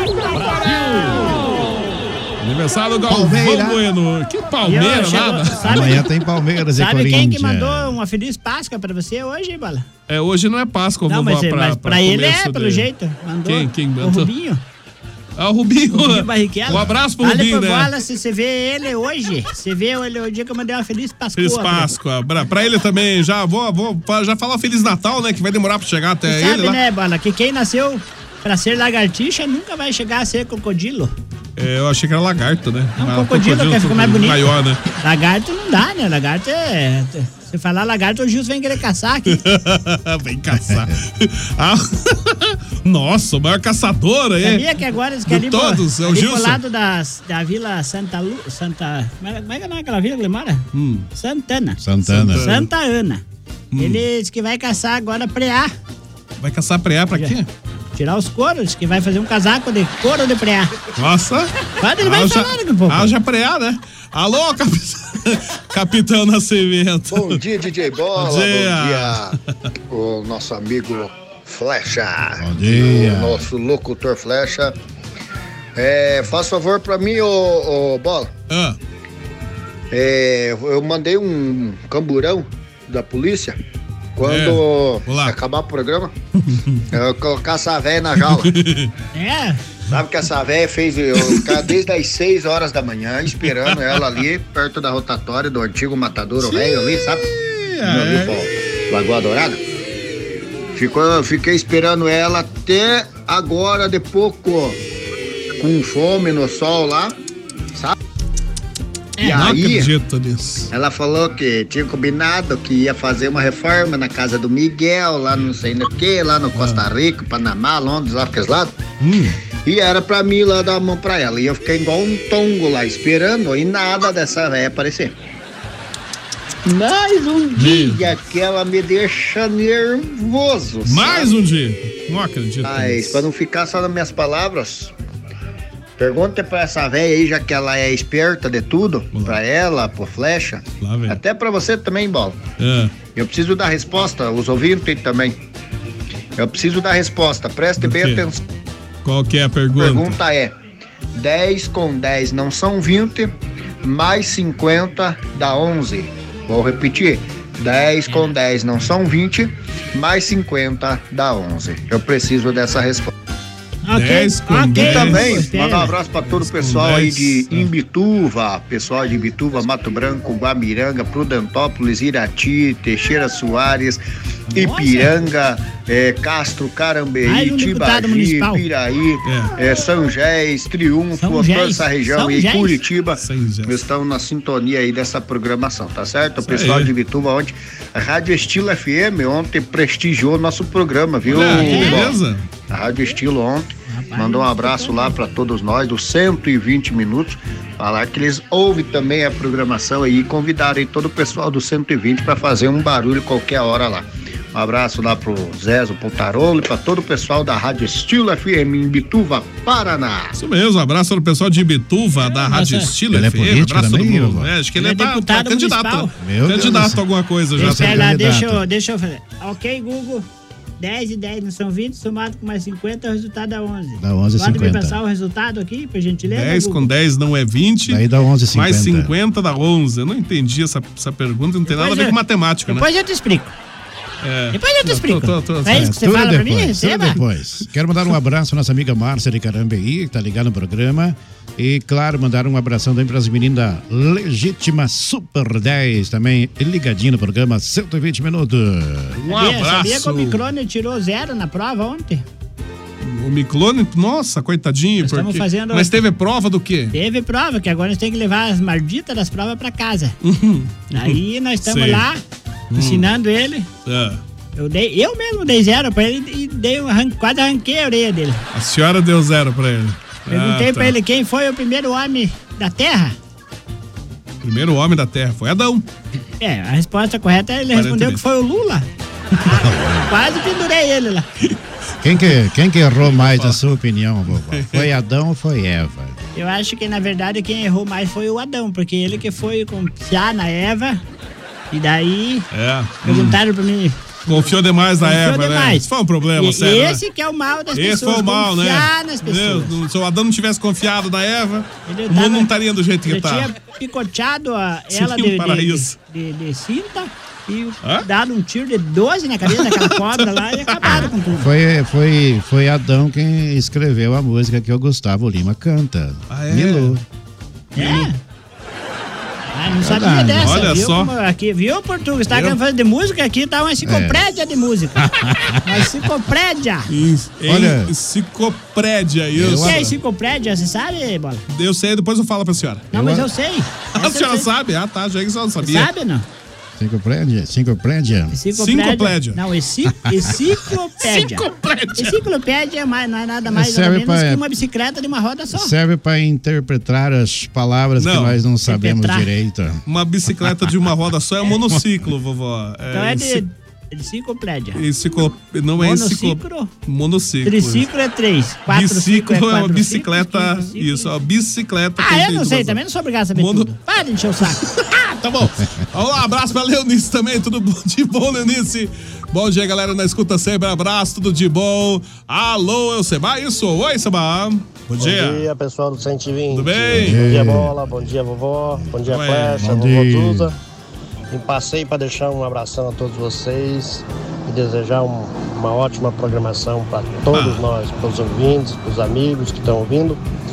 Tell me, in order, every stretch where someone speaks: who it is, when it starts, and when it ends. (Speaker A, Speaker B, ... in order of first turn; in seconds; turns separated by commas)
Speaker A: 0.3-1.2, Speaker B: 0.4-1.4, Speaker B: 2.4-6.1, Speaker C: 3.1-3.8, Speaker A: 4.6-6.1, Speaker C: 5.6-8.0, Speaker A: 6.8-9.9, Speaker B: 10.1-12.9, Speaker A: 11.1-14.6, Speaker B: 13.5-14.3, Speaker B: 15.4-17.9, Speaker A: 15.9-21.9, Speaker C: 16.7-17.0, Speaker B: 21.4-26.8, Speaker A: 26.3-31.1, Speaker B: 31.6-34.8, Speaker A: 33.0-34.4, Speaker A: 35.0-39.4, Speaker B: 39.3-44.7, Speaker A: 44.4-50.7, Speaker B: 45.3-46.6, Speaker B: 50.7-51.1, Speaker A: 51.2-53.2, Speaker C: 51.8-52.5, Speaker B: 52.0-52.7, Speaker B: 53.7-54.0, Speaker A: 53.8-55.7, Speaker B: 56.4-57.5, Speaker A: 58.0-60.7, Speaker B: 61.0-67.4, Speaker A: 61.8-63.1, Speaker D: 67.1-69.4, Speaker B: 68.2-69.4, Speaker D: 69.9-74.8, Speaker C: 72.4-73.5, Speaker D: 75.8-78.3, Speaker B: 78.5-78.8, Speaker D: 79.9-83.6, Speaker D: 84.2-86.1, Speaker B: 84.2-85.4, Speaker B: 86.5-86.8, Speaker D: 86.9-88.5, Speaker B: 88.3-88.9, Speaker A: 89.2-89.6, Speaker D: 89.9-97.3, Speaker B: 93.5-94.1, Speaker B: 96.4-98.4, Speaker D: 97.8-99.6, Speaker D: 100.8-104.8, Speaker D: 105.6-107.2, Speaker A: 109.2-109.5, Speaker D: 109.2-109.9, Speaker B: 109.2-110.7, Speaker D: 110.7-118.8, Speaker B: 116.5-116.8, Speaker B: 119.0-119.4, Speaker D: 119.7-125.2, Speaker A: 126.7-127.5, Speaker D: 127.5-131.3, Speaker B: 127.5-128.0, Speaker B: 130.8-133.3, Speaker D: 132.6-134.9, Speaker D: 136.0-142.4, Speaker B: 139.1-139.4, Speaker B: 140.8-141.2, Speaker B: 142.6-142.9, Speaker D: 143.2-145.4, Speaker D: 146.4-148.4, Speaker B: 147.8-148.3, Speaker B: 149.1-150.2, Speaker D: 149.8-150.6, Speaker D: 151.2-153.3, Speaker D: 153.8-163.1, Speaker A: 163.9-165.9, Speaker B: 163.9-165.4, Speaker D: 164.8-174.0, Speaker B: 166.5-167.7, Speaker D: 174.5-192.2, Speaker A: 174.5-175.1, Speaker A: 177.2-178.7, Speaker B: 179.2-179.5, Speaker A: 181.2-182.8, Speaker B: 183.2-183.8, Speaker B: 186.4-186.9, Speaker B: 191.3-192.5, Speaker A: 191.4-192.2, Speaker D: 192.7-210.4, Speaker A: 193.9-195.2, Speaker B: 210.3-218.1, Speaker A: 212.3-212.9, Speaker C: 213.1-214.5, Speaker A: 214.8-216.2, Speaker C: 216.2-217.0, Speaker C: 217.6-218.6, Speaker A: 217.6-220.3, Speaker A: 220.8-226.9, Speaker C: 224.0-225.0, Speaker B: 226.3-232.9, Speaker C: 227.9-229.1, Speaker A: 231.7-232.2, Speaker A: 232.7-233.5, Speaker B: 234.2-235.9, Speaker A: 234.5-237.2, Speaker C: 235.7-249.2, Speaker B: 249.2-250.4, Speaker A: 249.3-252.2, Speaker B: 253.0-257.0, Speaker A: 255.0-256.0, Speaker A: 256.9-260.1, Speaker B: 260.2-262.1, Speaker A: 260.9-262.2, Speaker B: 262.7-263.1, Speaker A: 262.8-263.7, Speaker B: 263.9-264.2, Speaker A: 264.6-268.4, Speaker B: 268.5-271.0, Speaker A: 270.3-273.2, Speaker B: 274.4-275.9, Speaker A: 276.4-278.9, Speaker B: 277.7-278.2, Speaker A: 279.4-281.3, Speaker C: 279.5-280.1, Speaker C: 282.0-286.2, Speaker B: 282.1-282.3, Speaker B: 283.0-283.7, Speaker B: 284.3-284.9, Speaker A: 286.4-291.0, Speaker A: 291.7-292.5, Speaker B: 292.5-293.4, Speaker A: 293.0-295.9, Speaker B: 294.3-297.0, Speaker A: 296.4-299.8, Speaker B: 297.7-303.5, Speaker A: 301.9-302.5, Speaker A: 303.1-311.5, Speaker B: 304.9-305.9, Speaker B: 309.5-311.1, Speaker C: 310.8-317.0, Speaker B: 316.3-317.0, Speaker A: 317.8-318.2, Speaker B: 317.8-318.1, Speaker A: 319.5-325.1, Speaker C: 319.7-320.6, Speaker B: 320.4-321.1, Speaker B: 322.3-322.6, Speaker C: 323.8-324.2, Speaker C: 325.0-325.9, Speaker A: 325.6-326.9, Speaker B: 326.9-329.9, Speaker C: 327.5-327.9, Speaker C: 329.4-329.9, Speaker A: 329.6-331.4, Speaker B: 331.5-332.9, Speaker A: 332.9-334.5, Speaker C: 332.9-333.3, Speaker B: 333.9-335.9, Speaker A: 335.6-336.3, Speaker C: 336.8-338.4, Speaker A: 338.3-345.8, Speaker B: 338.6-339.4, Speaker B: 341.0-342.2, Speaker C: 343.5-344.4, Speaker C: 345.5-349.8, Speaker B: 348.0-348.4, Speaker A: 348.6-349.3, Speaker B: 349.9-353.4, Speaker A: 352.9-354.8, Speaker B: 354.8-357.9, Speaker A: 355.8-356.7, Speaker A: 357.4-361.1, Speaker B: 358.7-362.8, Speaker A: 362.0-364.6, Speaker B: 363.4-363.7, Speaker B: 364.6-375.5, Speaker E: 375.0-380.6, Speaker B: 376.5-377.3, Speaker C: 376.9-378.0, Speaker B: 379.1-379.7, Speaker C: 379.6-380.5, Speaker E: 381.3-390.2, Speaker B: 387.3-387.6